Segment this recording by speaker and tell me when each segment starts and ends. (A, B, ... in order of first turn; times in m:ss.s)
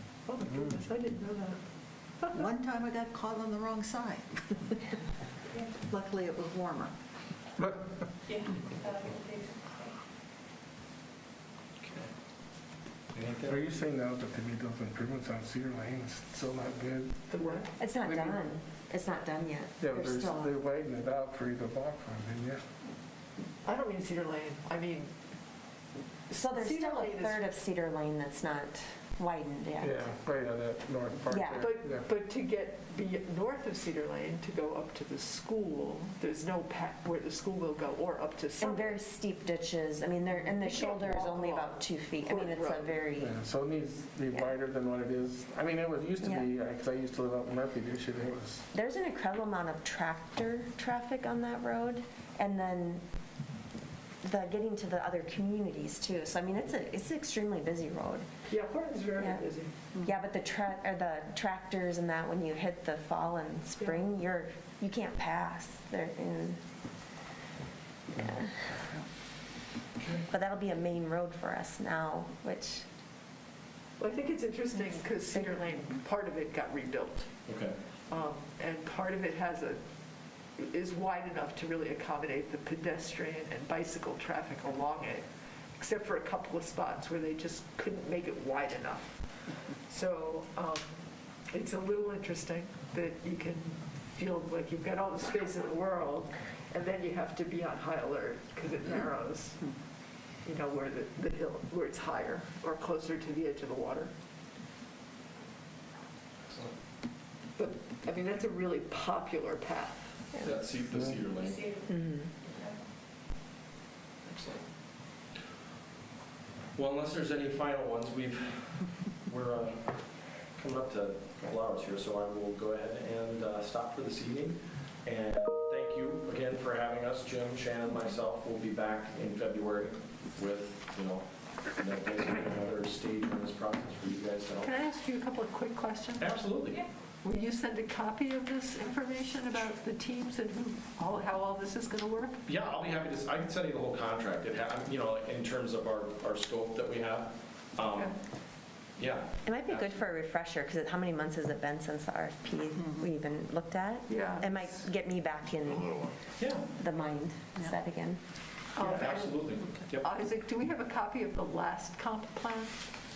0:00.3-0:01.6 A
0:02.3-0:04.9 B
0:05.8-0:06.9 B
0:11.8-0:12.1 C
0:13.1-0:13.6 C
0:13.4-0:17.2 D
0:17.3-0:17.7 A
0:17.8-0:20.5 E
0:19.8-0:22.6 D
0:23.6-0:25.1 A
0:26.3-0:27.5 A
0:26.3-0:30.1 E
0:29.8-0:32.0 D
0:31.3-0:31.7 E
0:31.5-0:39.0 A
0:38.6-0:43.3 E
0:40.3-0:43.0 A
0:43.2-0:48.6 D
0:46.2-0:46.5 E
0:48.7-0:53.0 E
0:54.2-0:58.3 E
0:58.5-0:59.7 A
0:59.2-0:59.4 E
1:00.0-1:06.6 E
1:03.8-1:04.1 A
1:08.1-1:08.5 E
1:10.0-1:10.2 C
1:10.3-1:12.8 E
1:14.0-1:17.3 A
1:17.5-1:17.7 C
1:18.1-1:19.8 A
1:20.6-1:29.2 A
1:29.9-1:30.9 A
1:31.5-1:39.7 A
1:40.4-1:44.1 A
1:46.5-1:46.7 C
1:47.6-1:50.1 A
1:50.4-1:51.8 C
1:51.8-1:52.3 E
1:54.2-1:54.6 C
1:56.7-2:00.0 C
2:00.6-2:14.8 C
2:14.6-2:16.4 A
2:16.2-2:16.8 C
2:17.2-2:22.4 A
2:22.5-2:28.1 C
2:27.8-2:28.1 A
2:29.0-2:29.9 C
2:29.4-2:35.9 E
2:32.8-2:33.0 B
2:34.1-2:34.6 A
2:36.4-2:36.6 C
2:36.8-2:38.2 E
2:38.7-2:42.8 A
2:38.8-2:40.1 C